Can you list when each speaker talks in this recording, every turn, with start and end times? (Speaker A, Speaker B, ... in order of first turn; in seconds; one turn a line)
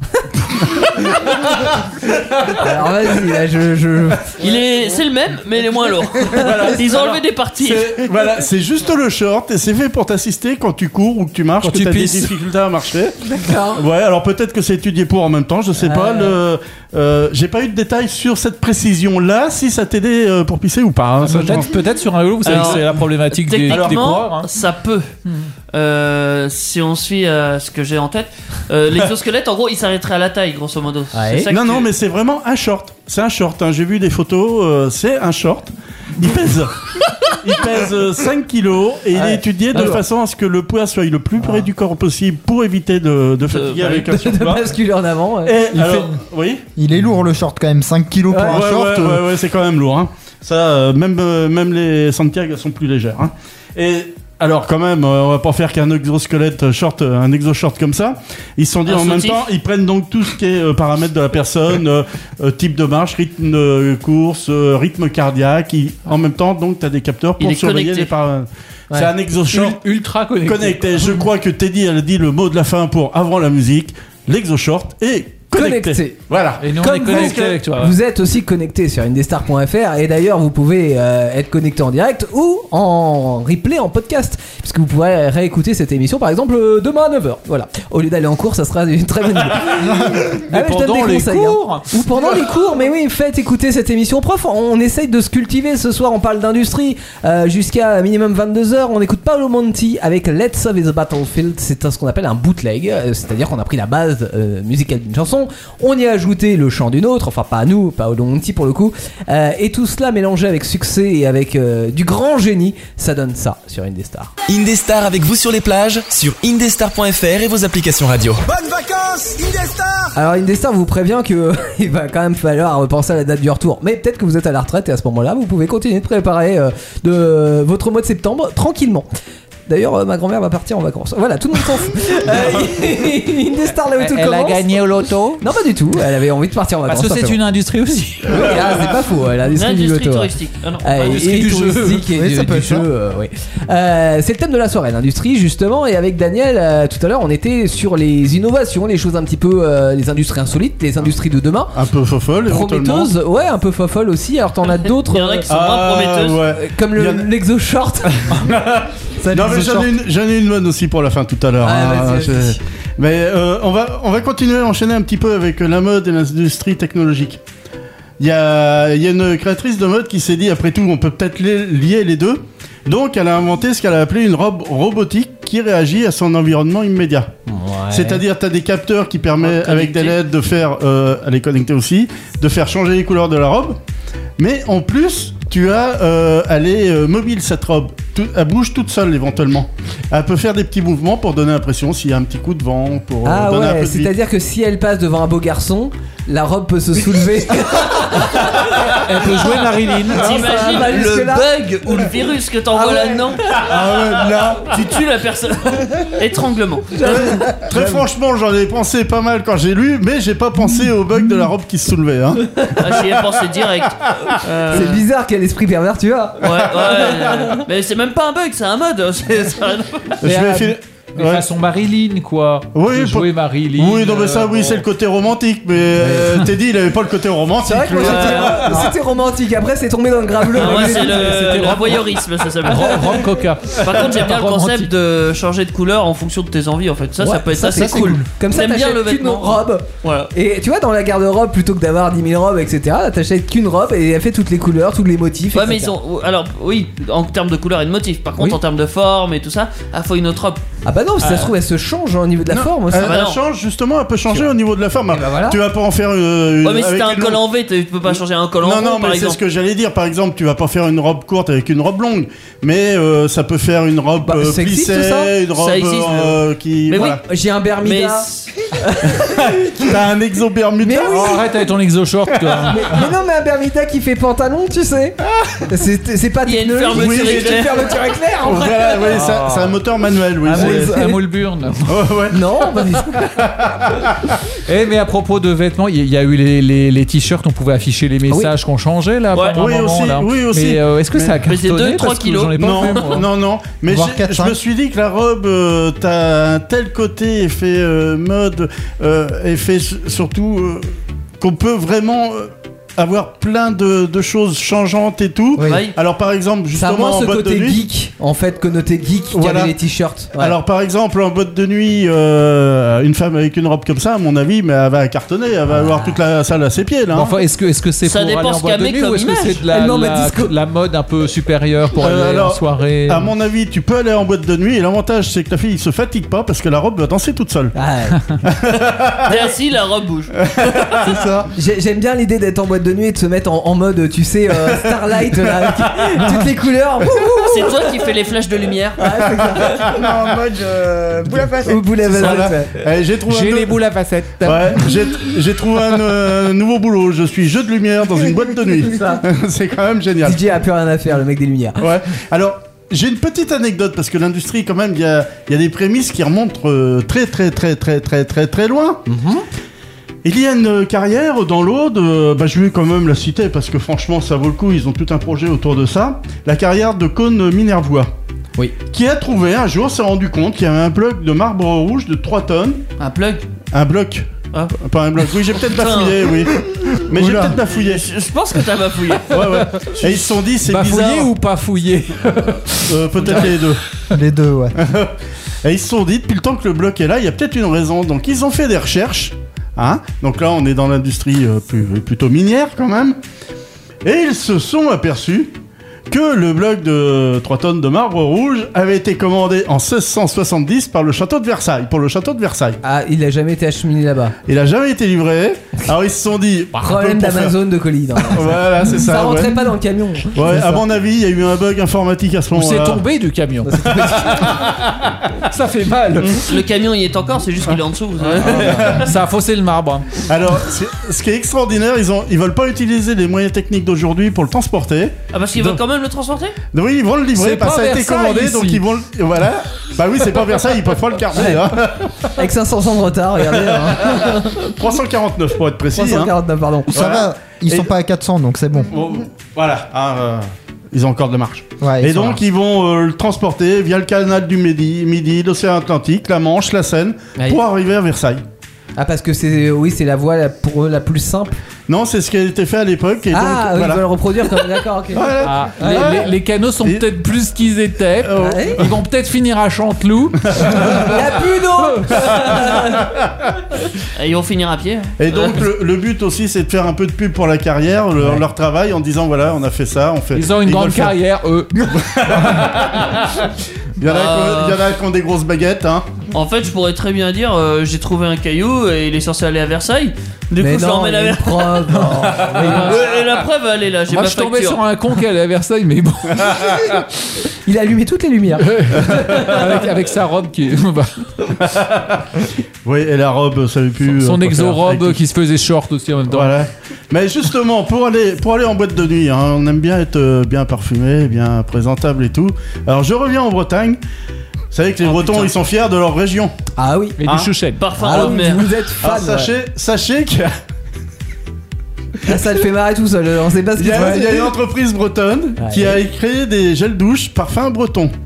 Speaker A: 0.4-3.2
Speaker B: 2.6-4.3
Speaker C: 4.4-8.0
Speaker A: 6.3-21.8
Speaker D: 11.6-12.3
Speaker B: 13.3-13.8
Speaker B: 15.8-16.4
Speaker D: 21.2-24.5
Speaker C: 22.4-25.1
Speaker A: 22.5-22.8
Speaker A: 23.7-24.2
Speaker D: 25.3-25.5
Speaker C: 25.7-31.9
Speaker B: 31.1-31.5
Speaker A: 31.5-44.7
Speaker B: 39.1-40.0
Speaker B: 41.4-41.7
Speaker C: 43.4-44.0
Speaker B: 43.8-46.1
Speaker A: 45.4-46.6
Speaker E: 46.8-49.3
Speaker B: 48.3-48.6
Speaker A: 48.4-69.8
Speaker C: 58.9-59.5
Speaker C: 67.4-68.1
Speaker D: 69.5-71.3
Speaker A: 70.4-77.6
Speaker B: 75.5-76.2
Speaker D: 76.6-78.0
Speaker B: 76.8-114.3
Speaker D: 90.5-91.9
Speaker F: 114.5-118.5
Speaker B: 120.1-129.1
Speaker B: 129.7-134.6
Speaker D: 134.0-135.4
Speaker B: 135.4-137.4
Speaker D: 136.9-138.6
Speaker B: 138.2-140.3
Speaker C: 139.5-141.2
Speaker B: 140.8-151.7
Speaker D: 141.0-142.1
Speaker E: 142.1-142.9
Speaker A: 151.7-153.1
Speaker B: 152.5-155.4
Speaker C: 155.0-156.4
Speaker A: 155.5-157.3
Speaker B: 156.5-158.3
Speaker A: 158.3-167.4
Speaker B: 159.2-159.9
Speaker B: 161.6-162.6
Speaker A: 168.2-177.3
Speaker B: 177.5-178.2
Speaker A: 177.9-183.8
Speaker C: 179.4-180.2
Speaker A: 184.4-194.1
Speaker B: 193.2-199.0
Speaker D: 198.9-200.3
Speaker B: 200.1-201.5
Speaker C: 200.2-207.2
Speaker B: 202.7-203.6
Speaker A: 203.5-204.8
Speaker B: 206.9-208.0
Speaker A: 207.0-213.3
Speaker C: 212.7-215.1
Speaker A: 214.0-214.8
Speaker B: 214.7-217.6
Speaker C: 216.4-220.2
Speaker A: 220.2-221.4
Speaker D: 220.3-224.8
Speaker A: 222.7-228.9
Speaker B: 226.0-226.3
Speaker B: 227.6-231.8
Speaker C: 228.0-228.7
Speaker C: 230.6-233.2
Speaker D: 230.6-232.1
Speaker D: 232.6-234.9
Speaker C: 233.8-240.3
Speaker B: 237.2-245.9
Speaker E: 237.7-238.2
Speaker C: 245.5-250.6
Speaker B: 250.8-253.2
Speaker C: 251.2-251.5
Speaker A: 252.5-257.4
Speaker C: 253.0-253.4
Speaker B: 255.1-255.6
Speaker C: 256.6-259.4
Speaker A: 258.1-267.2
Speaker B: 264.2-265.3
Speaker C: 265.6-267.2
Speaker B: 266.9-269.9
Speaker C: 267.8-268.5
Speaker A: 269.2-271.4
Speaker B: 270.8-271.4
Speaker D: 271.0-273.0
Speaker A: 272.4-272.7
Speaker B: 272.7-279.0
Speaker C: 276.4-278.0
Speaker A: 276.9-281.0
Speaker D: 279.1-279.8
Speaker B: 280.4-281.2
Speaker D: 280.5-282.1
Speaker A: 281.9-284.3
Speaker B: 282.3-283.3
Speaker D: 284.7-293.3
Speaker C: 289.3-289.6
Speaker A: 289.6-291.4
Speaker C: 291.4-293.2
Speaker A: 292.6-307.8
Speaker E: 293.9-294.6
Speaker B: 305.6-305.8
Speaker C: 305.6-305.9
Speaker B: 306.8-310.6
Speaker A: 309.3-309.7
Speaker A: 310.3-317.4
Speaker B: 315.8-316.1
Speaker D: 317.1-323.3
Speaker C: 318.0-319.6
Speaker B: 319.7-320.5
Speaker A: 322.0-327.8
Speaker B: 327.8-328.2
Speaker A: 328.4-329.4
Speaker C: 329.2-330.9
Speaker A: 330.5-331.3
Speaker E: 331.2-331.4
Speaker B: 331.4-337.9
Speaker A: 334.7-336.4
Speaker C: 337.4-339.0
Speaker B: 339.0-339.9
Speaker A: 339.4-340.2
Speaker G: 339.9-341.9
Speaker B: 341.6-342.8
Speaker A: 342.0-343.8
Speaker D: 343.3-344.8
Speaker A: 344.4-350.4
Speaker B: 348.9-349.2
Speaker B: 350.2-351.8
Speaker A: 351.8-359.0
Speaker B: 359.1-359.4
Speaker A: 360.2-368.1
Speaker A: 368.9-372.8
Speaker C: 373.0-373.4
Speaker A: 373.7-378.1
Speaker C: 375.6-376.5
Speaker E: 377.1-377.6
Speaker C: 377.6-379.4
Speaker A: 379.3-381.3
Speaker D: 380.6-383.4
Speaker A: 382.9-383.8
Speaker E: 384.1-384.8
Speaker A: 384.8-393.2
Speaker A: 394.0-395.6
Speaker A: 396.1-402.8
Speaker B: 402.8-404.4
Speaker A: 404.4-407.6
Speaker B: 406.8-410.8
Speaker A: 408.2-409.6
Speaker A: 410.3-413.1
Speaker D: 412.5-414.0
Speaker B: 413.6-414.6
Speaker A: 413.9-415.2
Speaker D: 415.5-416.5
Speaker A: 416.2-416.4
Speaker C: 416.4-419.1
Speaker A: 417.6-419.1
Speaker D: 418.4-420.2
Speaker A: 420.3-425.8
Speaker C: 425.3-426.6
Speaker A: 426.7-432.4
Speaker D: 427.3-428.8
Speaker B: 431.4-431.7
Speaker B: 432.4-434.6
Speaker A: 433.5-436.4
Speaker B: 435.9-436.9
Speaker A: 436.9-437.9
Speaker E: 436.9-439.0
Speaker A: 438.9-448.4
Speaker E: 441.8-442.4
Speaker B: 447.4-447.6
Speaker B: 449.0-451.6
Speaker A: 451.9-457.1
Speaker B: 453.3-456.2
Speaker D: 455.4-461.2
Speaker A: 458.2-459.0
Speaker B: 458.4-458.8
Speaker A: 460.4-461.2
Speaker B: 460.7-463.1
Speaker A: 462.2-463.2
Speaker C: 464.1-465.7
Speaker A: 465.2-471.2
Speaker D: 470.3-472.0
Speaker A: 471.8-476.1
Speaker C: 474.0-474.8
Speaker C: 476.3-484.8
Speaker B: 480.6-483.0
Speaker D: 482.6-483.0
Speaker D: 484.1-487.0
Speaker B: 487.6-489.4
Speaker D: 488.6-491.5
Speaker A: 489.1-489.6
Speaker A: 491.6-492.2
Speaker A: 492.9-495.2
Speaker D: 494.1-496.5
Speaker A: 496.3-504.0
Speaker A: 504.7-506.5
Speaker C: 505.0-505.5
Speaker B: 506.8-507.2
Speaker D: 507.2-507.9
Speaker A: 507.3-507.5
Speaker C: 507.8-508.7
Speaker B: 507.9-509.5
Speaker A: 508.1-508.4
Speaker A: 509.0-510.5
Speaker B: 512.3-514.6
Speaker A: 513.8-518.1
Speaker B: 515.6-516.0